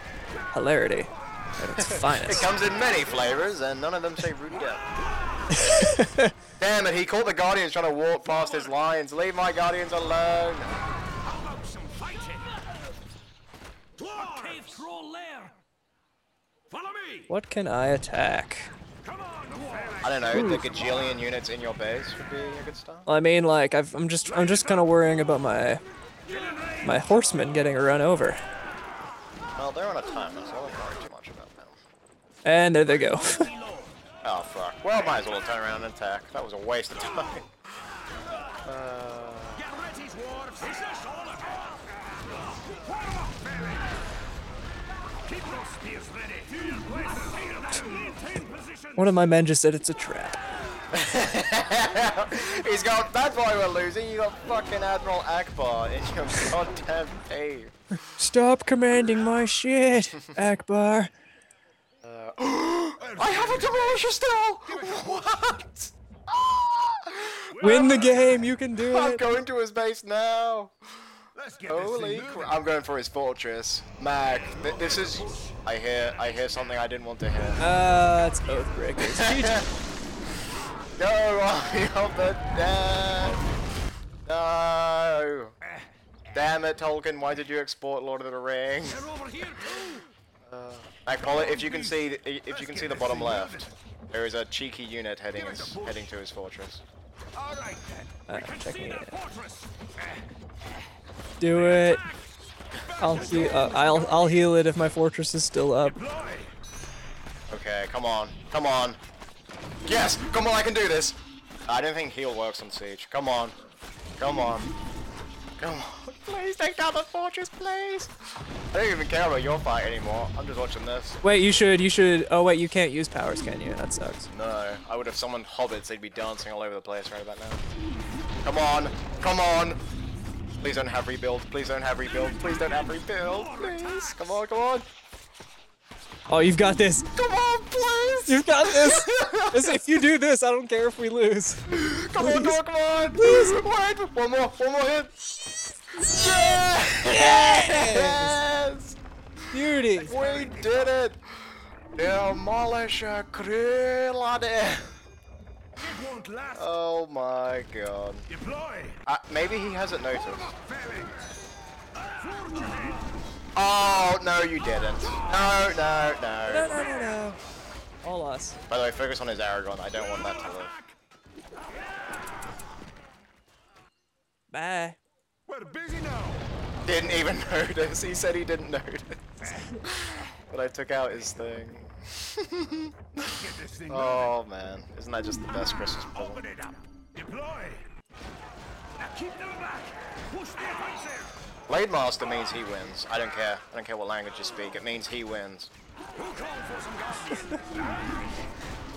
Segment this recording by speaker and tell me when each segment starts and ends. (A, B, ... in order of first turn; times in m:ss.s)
0:00.5-0:02.5 A
0:01.8-0:04.8 B
0:05.5-0:06.3 A
0:06.6-0:10.7 B
0:11.2-0:12.5 C
0:14.0-0:15.5 C
0:16.7-0:17.2 C
0:17.3-0:18.7 A
0:19.1-0:20.6 C
0:20.0-0:23.1 B
0:20.3-0:20.6 A
0:23.1-0:25.8 A
0:26.8-0:28.4 A
0:29.6-0:31.8 B
0:32.4-0:33.5 A
0:33.6-0:33.9 C
0:34.2-0:37.5 B
0:38.6-0:39.6 B
0:39.6-0:41.7 C
0:42.9-0:43.8 C
0:45.3-0:48.9 C
0:49.0-0:50.4 A
0:50.9-0:57.8 B
0:58.1-1:01.1 A
1:02.0-1:17.6 B
1:07.6-1:09.2 A
1:07.7-1:08.0 C
1:11.4-1:12.4 C
1:15.0-1:15.5 C
1:17.6-1:19.6 A
1:19.0-1:19.7 B
1:21.0-1:23.5 B
1:24.2-1:25.6 B
1:26.3-1:29.7 B
1:29.1-1:30.0 C
1:30.4-1:36.8 B
1:37.4-1:39.8 C
1:38.3-1:39.2 A
1:41.4-1:42.0 A
1:43.0-1:46.0 A
1:43.5-1:44.0 C
1:46.0-1:46.5 C
1:47.5-1:49.0 B
1:49.8-1:53.6 B
1:54.2-1:54.7 B
1:55.6-2:01.2 B
2:01.2-2:04.3 A
2:04.3-2:07.6 B
2:08.4-2:09.8 B
2:10.6-2:14.9 B
2:13.1-2:14.0 C
2:16.3-2:17.1 A
2:17.1-2:19.8 B
2:18.2-2:22.5 A
2:21.7-2:25.3 B
2:23.2-2:23.6 A
2:25.9-2:29.0 B
2:27.0-2:28.4 A
2:29.5-2:30.2 A
2:29.9-2:35.0 B
2:30.2-2:30.7 C
2:35.8-2:36.5 C
2:36.5-2:38.3 B
2:38.3-2:39.0 C
2:39.0-2:40.6 B
2:40.6-2:41.3 C
2:42.3-2:43.0 C
2:43.5-2:46.9 B
2:46.5-2:47.4 A
2:48.0-2:48.6 A
2:48.7-2:50.8 B
2:54.5-2:55.0 A
2:55.5-2:56.4 C
2:56.8-3:06.4 B
3:03.6-3:04.1 C
3:06.4-3:07.8 C
3:09.0-3:11.3 C
3:11.7-3:15.7 B
3:16.1-3:18.4 C